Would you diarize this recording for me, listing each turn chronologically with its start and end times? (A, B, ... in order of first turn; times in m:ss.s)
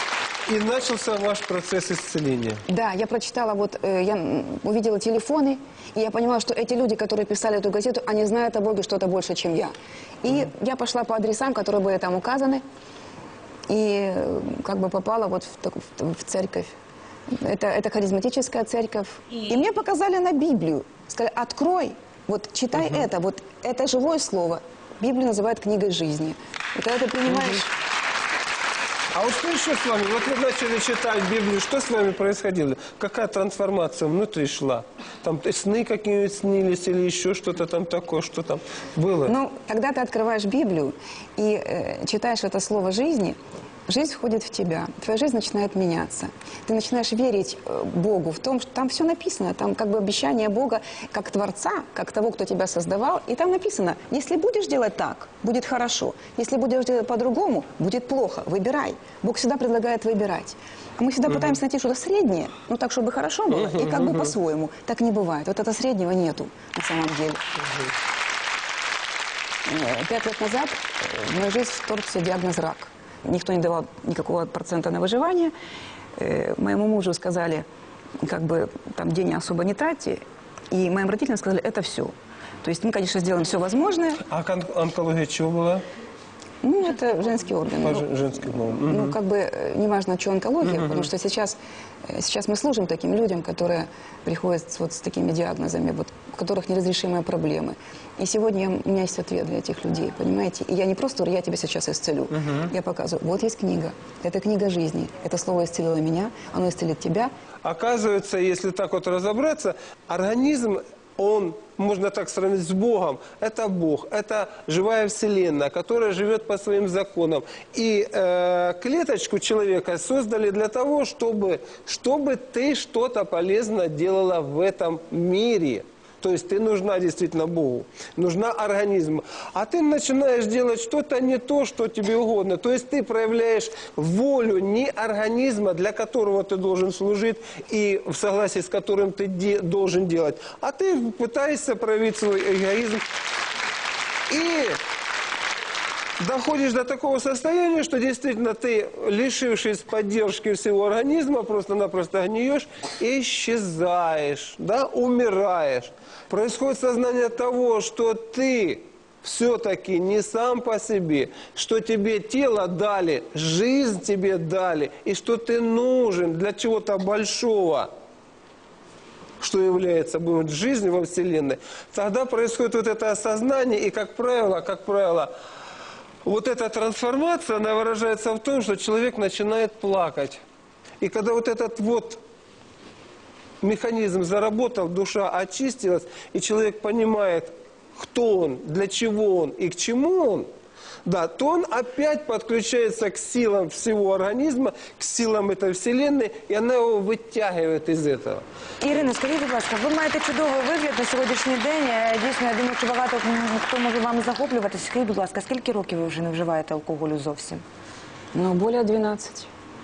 0:00.5-0:02.6 A
0:02.7-0:12.6 B
0:13.7-0:16.7 B
0:17.3-0:27.7 B
0:27.3-0:27.6 A
0:29.1-0:39.3 A
0:39.3-0:43.4 B
0:43.9-1:07.4 B
1:03.7-1:04.3 A
1:09.6-1:15.5 B
1:16.2-1:17.6 B
1:18.2-1:24.2 B
1:24.3-1:25.8 A
1:26.6-1:28.1 B
1:27.8-1:29.2 A
1:28.8-1:31.6 B
1:30.6-1:31.1 A
1:32.1-1:47.3 B
1:42.3-1:42.7 A
1:47.6-2:23.0 A
2:24.3-2:24.8 A
2:26.2-2:47.9 A
2:49.4-2:55.3 A
2:56.2-3:00.4 A
3:01.0-3:02.2 A
3:03.6-3:10.5 A
3:11.0-3:19.0 A
3:18.8-3:27.6 C
3:28.3-3:29.5 B